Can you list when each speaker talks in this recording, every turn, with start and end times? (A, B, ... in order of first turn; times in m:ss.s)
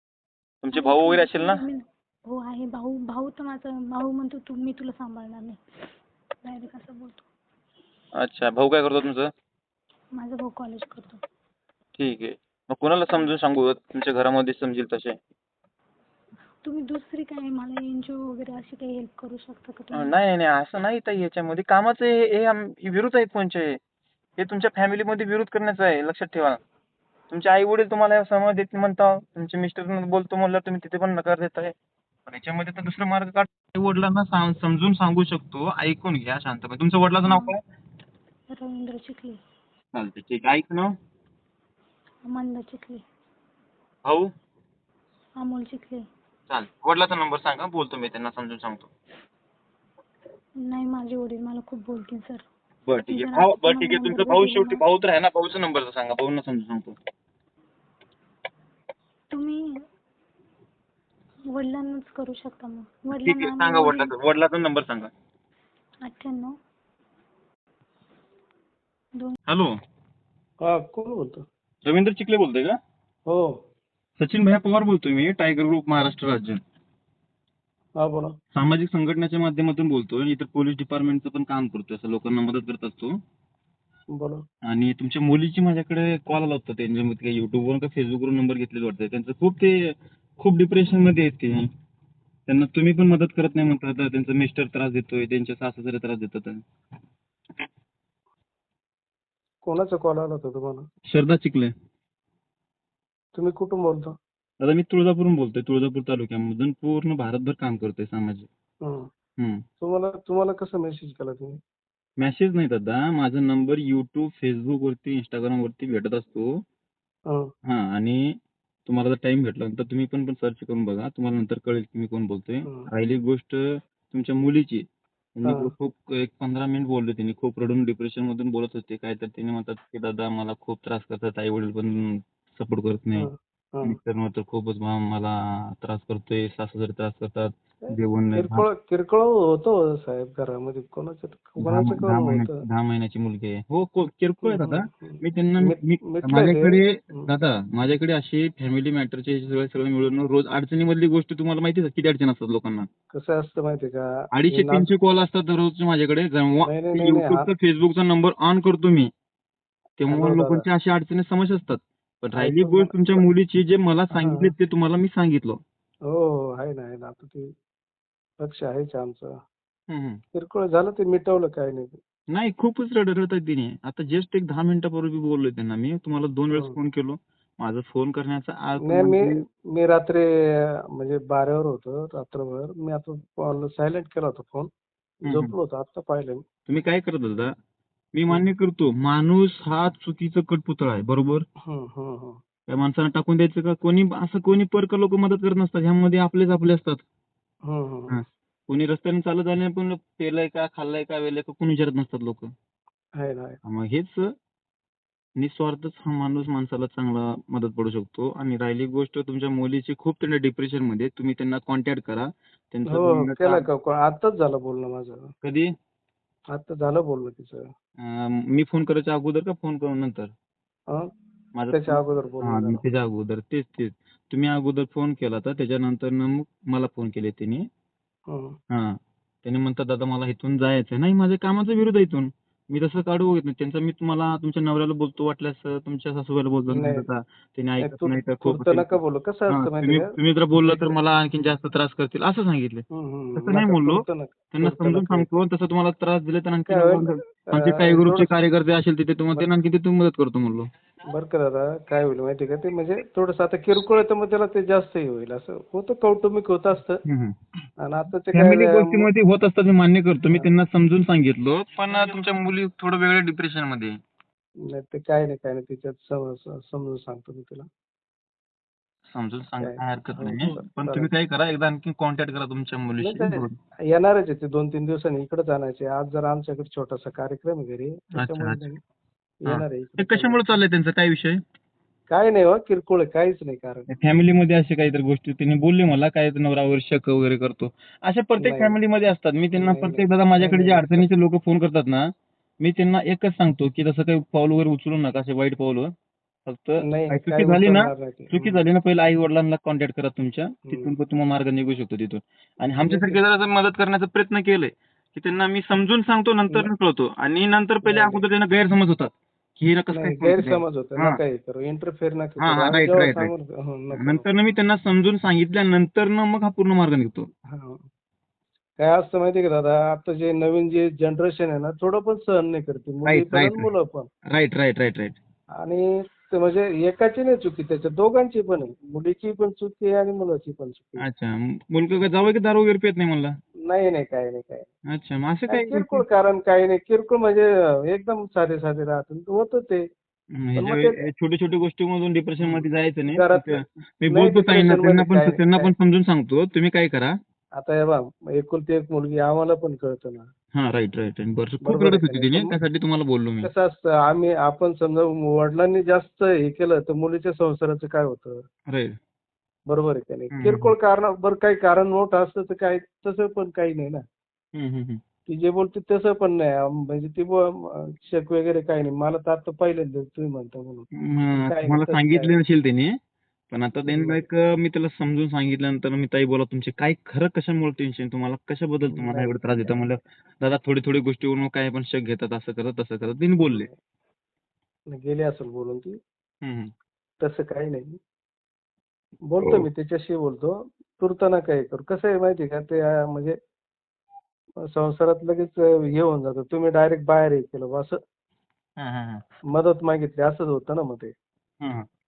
0:00.6-0:01.6 A
0:00.7-0:05.6 B
0:06.4-0:07.3 B
0:08.2-0:09.3 A
0:10.1-0:11.2 B
0:12.0-0:15.2 A
0:16.6-0:20.1 B
0:19.9-0:23.8 A
0:24.4-0:26.6 A
0:27.3-0:31.7 A
0:32.3-0:37.6 A
0:37.2-0:37.6 B
0:38.5-0:39.4 B
0:39.9-0:41.0 A
0:42.2-0:43.0 B
0:44.0-0:44.3 A
0:45.4-0:46.1 B
0:46.5-0:48.9 A
0:50.6-0:52.4 B
0:52.8-0:57.0 A
0:53.1-0:54.8 B
0:59.3-0:59.8 B
1:01.5-1:04.1 B
1:03.2-1:05.1 A
1:06.0-1:06.6 B
1:09.5-1:09.7 A
1:10.6-1:11.4 C
1:11.8-1:12.8 A
1:13.3-1:13.6 C
1:14.2-1:16.6 A
1:18.0-1:18.4 C
1:18.5-1:23.2 A
1:24.1-1:24.4 C
1:24.6-1:31.7 A
1:32.5-1:36.6 A
1:39.6-1:40.9 C
1:41.0-1:41.7 A
1:43.3-1:44.2 C
1:44.6-1:48.5 A
1:48.8-1:49.1 C
1:49.4-1:49.6 A
1:49.8-1:51.6 C
1:52.2-1:56.6 A
1:57.3-1:57.5 C
1:57.6-2:04.8 A
2:02.6-2:02.9 C
2:05.4-2:13.3 A
2:05.4-2:05.7 C
2:13.1-2:14.0 C
2:13.8-2:18.6 A
2:17.8-2:22.6 C
2:21.6-2:32.9 A
2:24.4-2:27.3 C
2:33.1-2:34.9 C
2:34.3-2:39.1 A
2:36.6-2:37.5 C
2:40.0-2:45.6 A
2:40.1-2:40.7 C
2:42.4-2:43.2 C
2:44.1-2:44.5 C
2:46.0-2:47.5 C
2:48.4-2:49.4 C
2:49.9-2:50.2 A
2:50.3-2:52.0 C
2:52.3-2:59.4 A
2:56.5-2:56.8 C
2:58.8-3:06.4 C
3:05.2-3:05.5 A
3:06.7-3:07.5 A
3:08.1-3:11.4 A
3:11.6-3:12.4 C
3:12.7-3:17.0 A
3:17.6-3:18.2 C
3:18.1-3:22.5 A
3:23.1-3:23.6 C
3:23.6-3:24.3 A
3:25.4-3:33.6 A
3:32.8-3:35.3 C
3:35.4-3:35.7 A
3:36.5-3:37.7 C
3:38.0-3:40.3 A
3:41.5-3:47.7 A
3:41.7-3:42.8 C
3:48.3-3:48.6 C
3:48.7-4:02.8 A
3:56.7-3:57.0 C
3:57.8-4:00.9 C
4:02.9-4:05.3 C
4:03.4-4:10.7 A
4:06.7-4:08.3 C
4:11.1-4:17.0 C
4:17.0-4:17.4 A
4:17.8-4:19.1 C
4:18.3-4:24.0 A
4:24.6-4:27.7 C
4:29.1-4:33.5 A
4:29.6-4:31.1 C
4:33.0-4:38.8 C
4:38.2-4:38.6 A
4:39.4-4:40.4 C
4:39.4-4:41.4 A
4:42.1-4:43.9 C
4:43.9-4:55.9 A
4:48.4-4:48.8 C
4:49.5-4:51.1 C
4:56.4-5:11.2 A
4:56.8-4:58.6 C
5:00.7-5:00.9 C
5:02.8-5:03.2 C
5:07.8-5:08.2 C
5:09.9-5:14.2 C
5:12.4-5:13.3 A
5:13.9-5:17.3 A
5:17.5-5:17.9 C
5:18.8-5:24.1 C
5:23.0-5:23.7 A
5:24.3-5:25.2 A
5:25.6-5:31.1 C
5:31.0-5:33.4 A
5:33.6-5:34.7 C
5:34.9-5:36.0 A
5:35.5-5:39.9 C
5:40.3-5:47.2 A
5:40.6-5:41.0 C
5:42.4-5:45.7 C
5:47.6-5:50.3 C
5:50.5-5:53.5 A
5:51.6-5:52.6 C
5:53.4-5:58.5 C
5:58.7-5:59.0 A
5:59.7-6:04.0 C
6:00.3-6:00.7 A
6:04.5-6:05.0 A
6:05.3-6:12.4 C
6:11.0-6:13.0 A
6:13.5-6:23.7 A
6:13.8-6:14.2 C
6:18.9-6:19.7 C
6:23.4-6:23.7 C
6:24.9-6:26.0 C
6:26.4-6:26.7 A
6:27.2-6:28.0 C
6:29.2-6:33.4 C
6:29.4-6:29.7 A
6:34.6-6:38.0 C
6:38.8-6:39.2 A
6:39.5-6:41.1 C
6:41.6-6:41.9 A